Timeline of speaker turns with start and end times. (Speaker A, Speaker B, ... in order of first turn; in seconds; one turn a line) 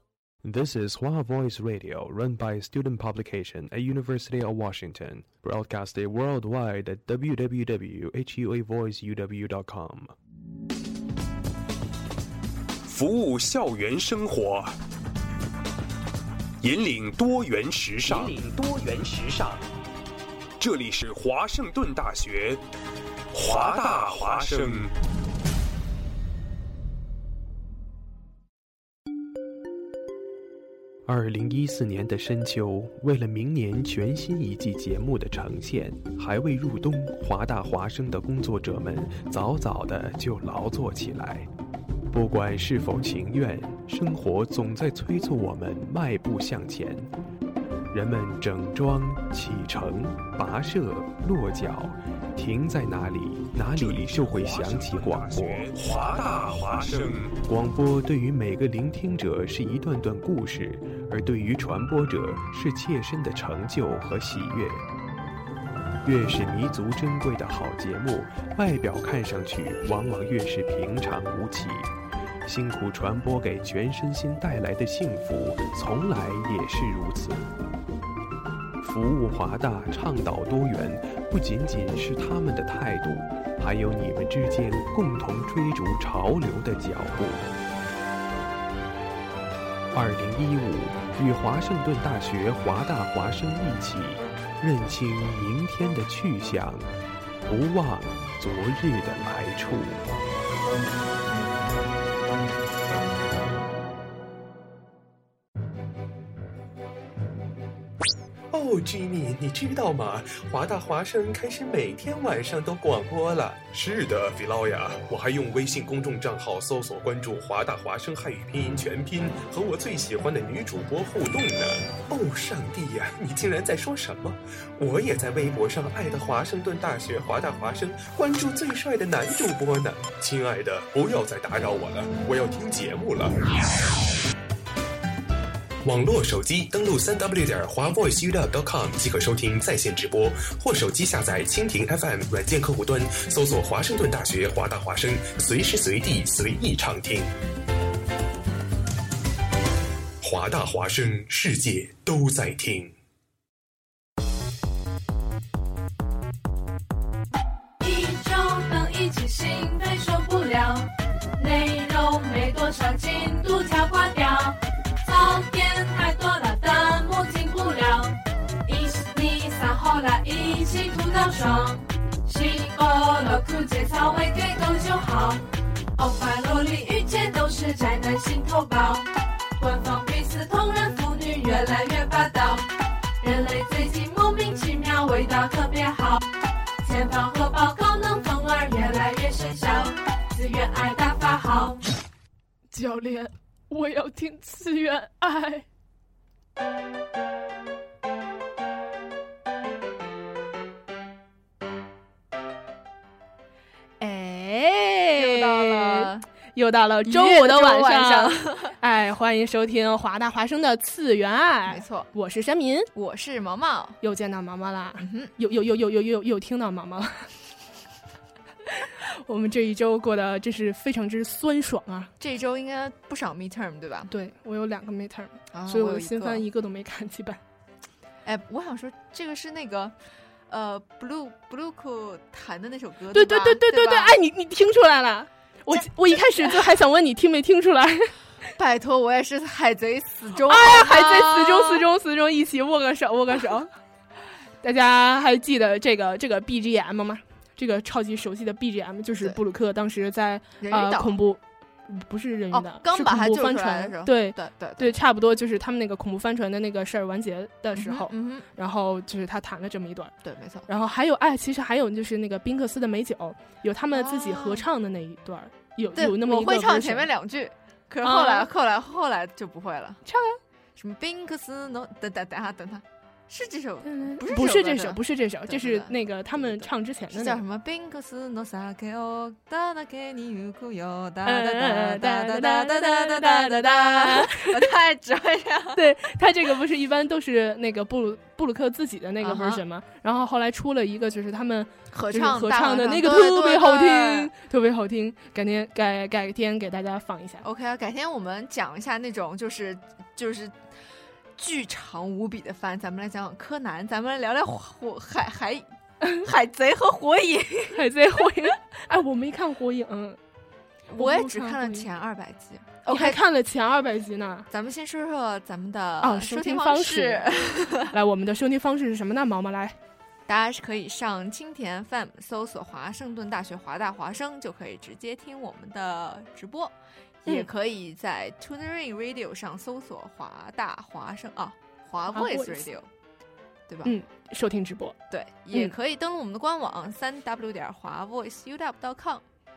Speaker A: 0.4-10.2
Speaker B: 12.9-14.7
Speaker B: 16.6-19.6
Speaker B: 20.6-22.6
Speaker B: 23.3-24.9
Speaker A: 31.1-41.5
Speaker A: 42.1-47.1
Speaker A: 47.9-55.7
Speaker B: 53.7-57.4
Speaker A: 57.4-64.8
Speaker A: 66.0-71.9
Speaker A: 72.5-77.5
Speaker A: 78.8-87.5
Speaker A: 89.9-96.9
Speaker A: 97.5-100.0
Speaker C: 108.5-133.4
Speaker C: 135.8-147.3
Speaker C: 150.2-152.9
Speaker D: 157.8-175.4
Speaker D: 176.0-182.7
Speaker D: 183.2-186.2
Speaker D: 186.8-191.8
Speaker E: 192.7-195.7
Speaker E: 204.0-212.9
Speaker F: 205.1-206.3
Speaker F: 207.1-208.7
Speaker F: 211.7-212.1
Speaker F: 212.9-214.0
Speaker E: 214.0-217.3
Speaker F: 215.0-215.3
Speaker E: 219.3-222.1
Speaker F: 222.2-224.1
Speaker E: 224.1-227.4
Speaker F: 225.5-226.4
Speaker F: 228.2-230.0
Speaker F: 230.5-234.2
Speaker E: 233.1-238.1
Speaker F: 238.6-241.8
Speaker E: 240.4-243.7
Speaker E: 244.6-260.1
Speaker F: 250.6-251.2
Speaker F: 252.5-255.0
Speaker F: 257.8-258.5
Speaker F: 260.2-260.7
Speaker E: 260.7-267.1
Speaker F: 263.9-264.7
Speaker F: 266.0-270.0
Speaker E: 268.0-268.5
Speaker E: 270.1-270.4
Speaker F: 270.8-285.8
Speaker E: 273.9-277.4
Speaker E: 281.2-284.5
Speaker E: 285.8-297.4
Speaker F: 289.2-289.6
Speaker F: 291.9-294.3
Speaker F: 297.4-300.6
Speaker F: 301.4-305.7
Speaker F: 306.2-307.8
Speaker E: 307.8-310.2
Speaker F: 310.9-313.2
Speaker E: 311.0-311.9
Speaker E: 312.9-314.5
Speaker F: 314.5-317.9
Speaker E: 316.0-317.2
Speaker E: 317.9-319.8
Speaker F: 320.3-326.7
Speaker F: 327.2-332.9
Speaker E: 332.1-332.6
Speaker F: 333.7-333.9
Speaker E: 333.9-335.0
Speaker F: 335.1-339.2